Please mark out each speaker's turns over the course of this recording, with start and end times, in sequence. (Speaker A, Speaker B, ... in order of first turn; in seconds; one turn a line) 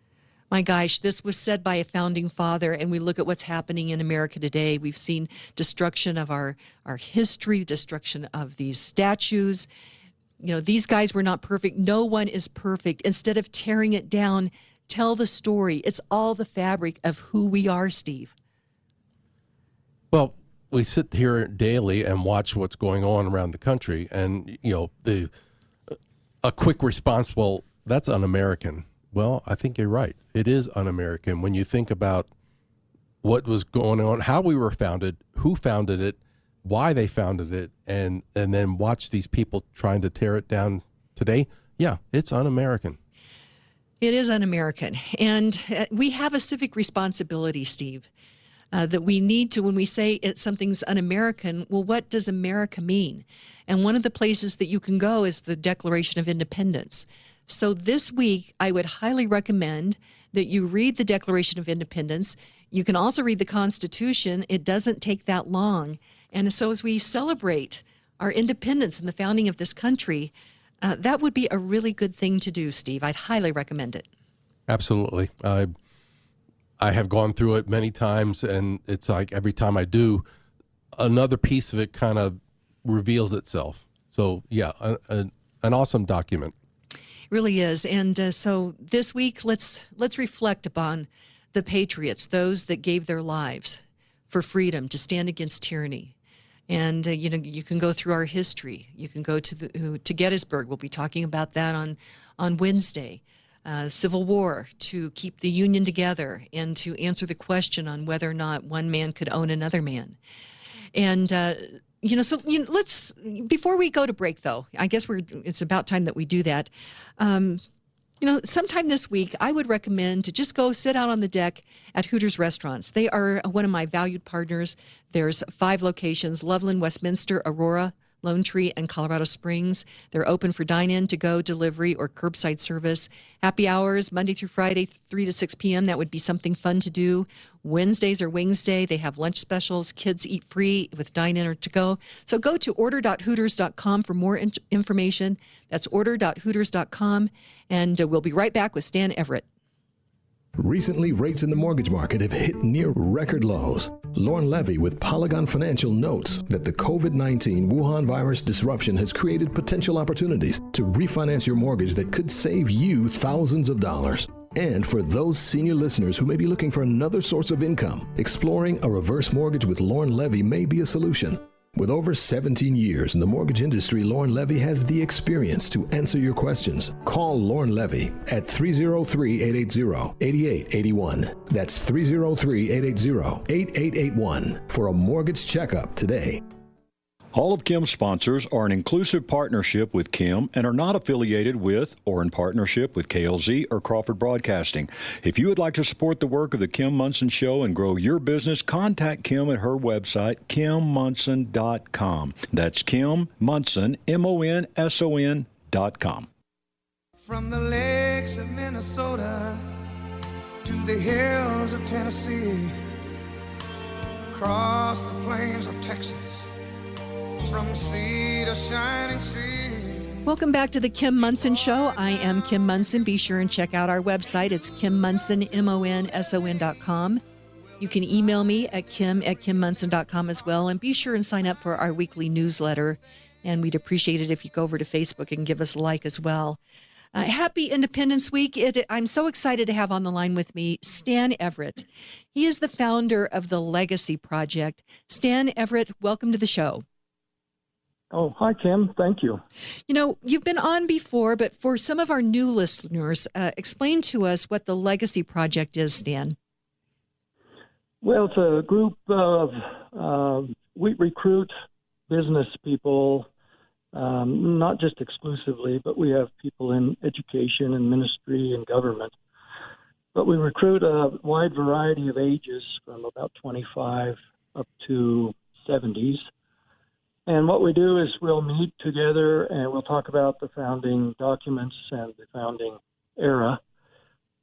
Speaker A: 0.5-9.7
Speaker A: 10.4-18.3
Speaker B: 20.1-25.3
Speaker B: 25.9-32.3
Speaker B: 33.2-43.0
Speaker A: 44.0-48.1
Speaker A: 48.7-74.0
Speaker B: 74.7-75.7
Speaker B: 76.8-80.2
Speaker B: 80.9-86.5
Speaker A: 87.3-96.1
Speaker A: 96.7-110.2
Speaker A: 110.9-117.6
Speaker A: 118.2-149.4
Speaker C: 150.6-186.4
Speaker D: 187.3-206.3
Speaker E: 207.2-209.7
Speaker E: 210.6-212.8
Speaker E: 214.3-216.5
Speaker E: 217.4-220.2
Speaker A: 220.2-227.2
Speaker A: 227.8-236.6
Speaker A: 237.1-246.8
Speaker F: 248.1-249.4
Speaker A: 249.9-256.4
Speaker F: 258.0-261.5
Speaker F: 262.1-263.3
Speaker F: 263.9-269.1
Speaker F: 270.1-276.3
Speaker F: 277.3-283.6